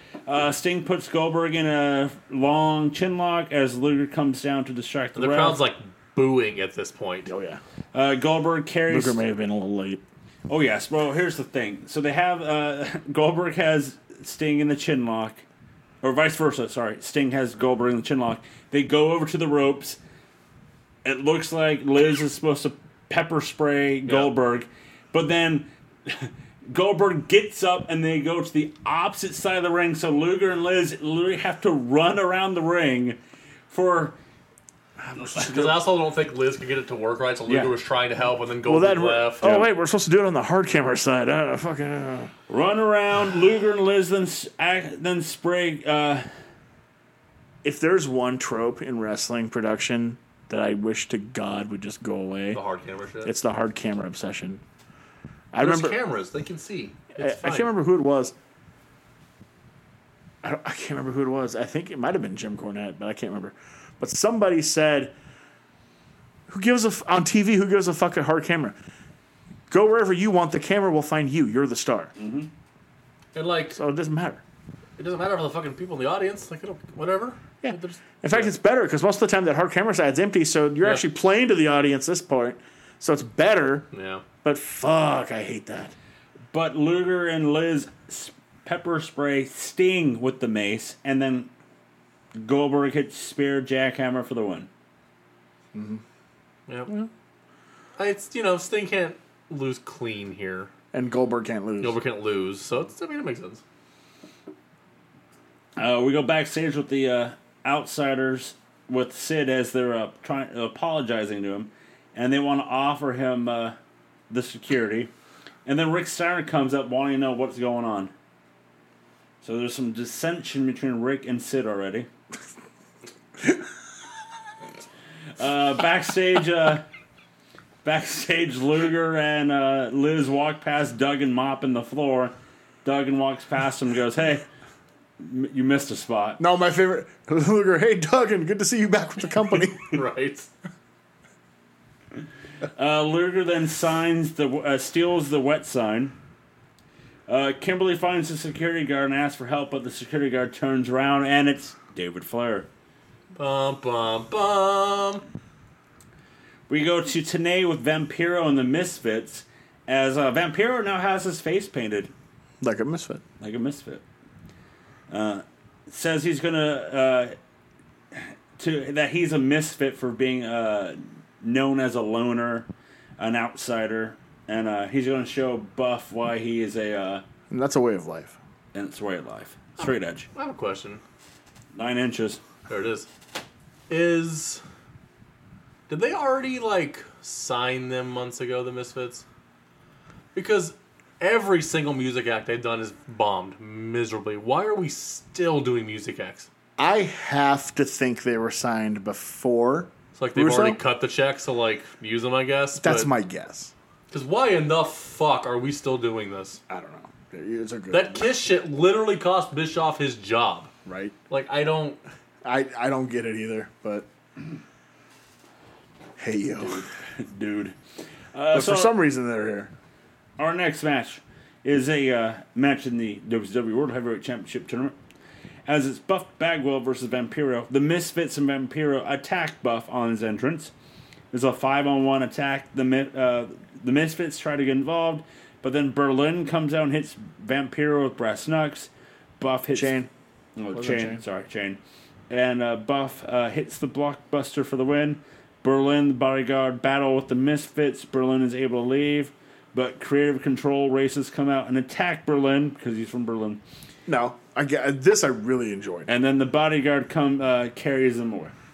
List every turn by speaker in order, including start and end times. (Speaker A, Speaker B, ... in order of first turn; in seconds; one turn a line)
Speaker A: 0.3-5.6
Speaker B: 5.2-7.3
Speaker C: 7.3-7.6
Speaker A: 7.9-9.2
Speaker C: 8.9-10.0
Speaker A: 10.5-15.4
Speaker A: 16.0-20.0
Speaker A: 21.1-33.2
Speaker B: 24.1-24.3
Speaker A: 33.7-34.2
Speaker C: 35.1-35.7
Speaker B: 35.3-39.5
Speaker A: 37.5-37.7
Speaker C: 38.7-42.3
Speaker A: 39.4-39.7
Speaker A: 42.5-46.3
Speaker C: 47.6-52.6
Speaker B: 52.5-53.3
Speaker C: 53.2-54.6
Speaker C: 55.5-56.0
Speaker B: 55.6-57.7
Speaker C: 57.2-58.3
Speaker C: 60.4-65.1
Speaker C: 66.5-68.8
Speaker C: 69.7-72.1
Speaker A: 72.2-72.5
Speaker B: 73.3-73.8
Speaker C: 73.7-74.4
Speaker B: 75.0-78.5
Speaker C: 77.6-83.9
Speaker B: 83.9-84.2
Speaker C: 84.4-85.9
Speaker A: 86.5-91.5
Speaker A: 92.4-94.7
Speaker C: 95.7-96.0
Speaker B: 98.0-100.7
Speaker C: 100.9-102.0
Speaker B: 101.8-103.6
Speaker A: 105.8-113.8
Speaker A: 114.3-115.1
Speaker A: 115.7-118.1
Speaker A: 119.4-122.1
Speaker A: 125.4-126.8
Speaker A: 127.8-132.3
Speaker A: 132.8-134.4
Speaker A: 135.2-136.4
Speaker C: 136.4-140.0
Speaker B: 139.8-140.5
Speaker A: 142.8-146.2
Speaker A: 147.3-152.7
Speaker B: 153.3-155.2
Speaker A: 156.7-162.1
Speaker C: 162.6-163.2
Speaker A: 163.4-164.0
Speaker A: 165.1-167.3
Speaker A: 168.1-172.7
Speaker A: 173.2-177.2
Speaker C: 177.5-178.4
Speaker A: 178.7-180.3
Speaker B: 179.8-181.0
Speaker A: 181.8-182.4
Speaker B: 182.7-183.1
Speaker B: 183.9-184.6
Speaker B: 185.9-189.2
Speaker B: 190.3-196.5
Speaker C: 196.8-200.8
Speaker B: 200.2-203.1
Speaker C: 202.8-203.7
Speaker B: 204.1-206.6
Speaker C: 206.7-208.3
Speaker B: 207.9-210.7
Speaker C: 210.9-211.1
Speaker B: 211.3-212.0
Speaker C: 212.4-214.1
Speaker C: 216.2-216.8
Speaker A: 216.6-217.8
Speaker A: 218.3-219.0
Speaker C: 218.5-219.7
Speaker A: 220.4-224.9
Speaker A: 225.7-230.7
Speaker A: 231.3-240.0
Speaker C: 239.7-240.1
Speaker A: 240.6-241.8
Speaker C: 240.8-241.2
Speaker A: 242.3-253.6
Speaker C: 254.1-256.1
Speaker A: 256.1-258.5